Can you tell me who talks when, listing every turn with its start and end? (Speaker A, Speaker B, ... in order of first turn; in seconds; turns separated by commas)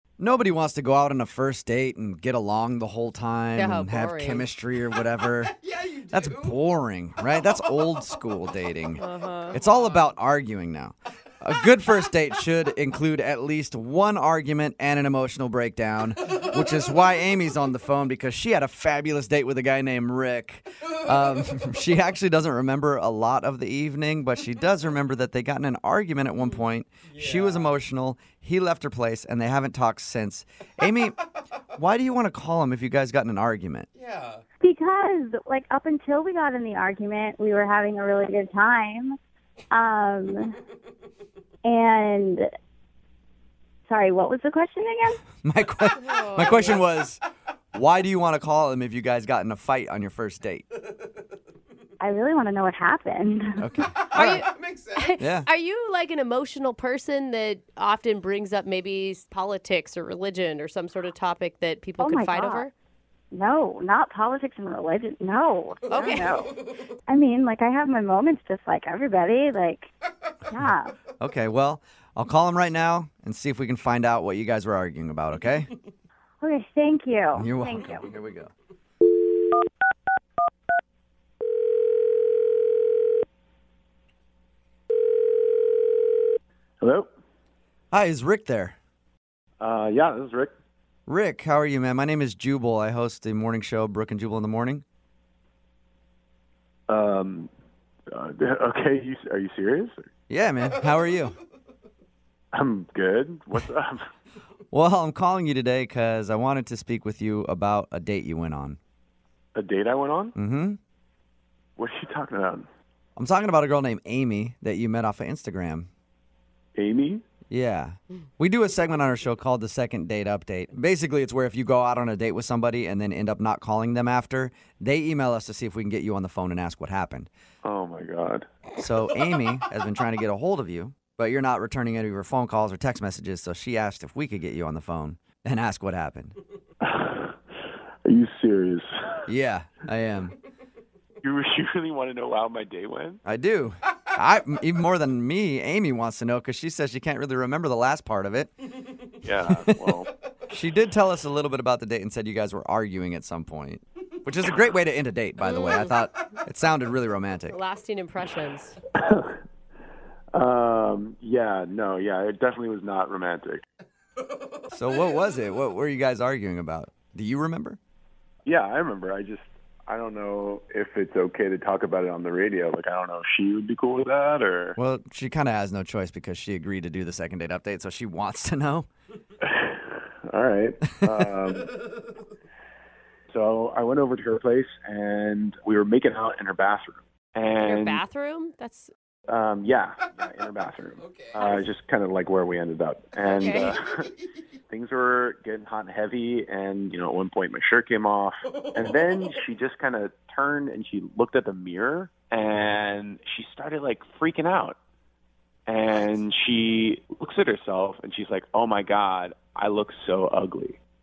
Speaker A: 0.2-5.5, Speaker B: 3.5-4.5, Speaker C: 5.6-6.5, Speaker A: 6.1-31.2, Speaker B: 9.0-9.6, Speaker C: 9.5-10.0, Speaker C: 27.1-27.6, Speaker A: 31.8-33.9, Speaker C: 34.0-34.4, Speaker D: 34.6-39.2, Speaker D: 39.7-40.6, Speaker D: 41.6-42.5, Speaker D: 43.9-45.2, Speaker A: 45.4-47.2, Speaker B: 46.0-46.8, Speaker A: 47.7-50.6, Speaker D: 52.0-53.7, Speaker A: 53.6-54.4, Speaker B: 54.1-62.7, Speaker C: 54.4-55.1, Speaker A: 55.2-55.5, Speaker D: 62.0-62.7, Speaker D: 63.3-69.9, Speaker B: 65.9-66.3, Speaker D: 70.5-70.9, Speaker A: 71.2-75.7, Speaker D: 76.4-78.1, Speaker A: 77.3-78.5, Speaker E: 86.8-87.1, Speaker A: 87.9-88.8, Speaker E: 89.6-90.5, Speaker A: 91.1-94.8, Speaker E: 96.9-97.5, Speaker E: 98.1-100.0, Speaker A: 100.3-101.3, Speaker E: 102.5-104.1, Speaker A: 104.7-108.8, Speaker E: 109.5-110.3, Speaker A: 110.3-110.8, Speaker E: 111.8-112.7, Speaker A: 113.2-115.9, Speaker E: 116.8-117.2, Speaker A: 117.5-127.3, Speaker E: 127.6-128.4, Speaker A: 128.8-136.3, Speaker E: 136.8-137.4, Speaker E: 138.0-139.2, Speaker A: 139.3-140.3, Speaker E: 141.2-143.2, Speaker A: 143.2-148.5, Speaker E: 149.2-150.1, Speaker A: 149.4-149.9, Speaker A: 150.5-157.6, Speaker B: 155.4-155.9, Speaker B: 157.5-158.8, Speaker E: 158.9-159.4, Speaker E: 160.3-163.6, Speaker A: 164.7-167.8, Speaker E: 168.4-174.8, Speaker A: 174.8-178.9, Speaker E: 179.4-181.7, Speaker E: 183.3-188.0, Speaker B: 187.6-188.9, Speaker E: 189.3-194.1, Speaker C: 191.0-191.4, Speaker B: 193.2-193.7, Speaker E: 194.7-204.8, Speaker C: 198.5-198.9, Speaker E: 205.7-210.8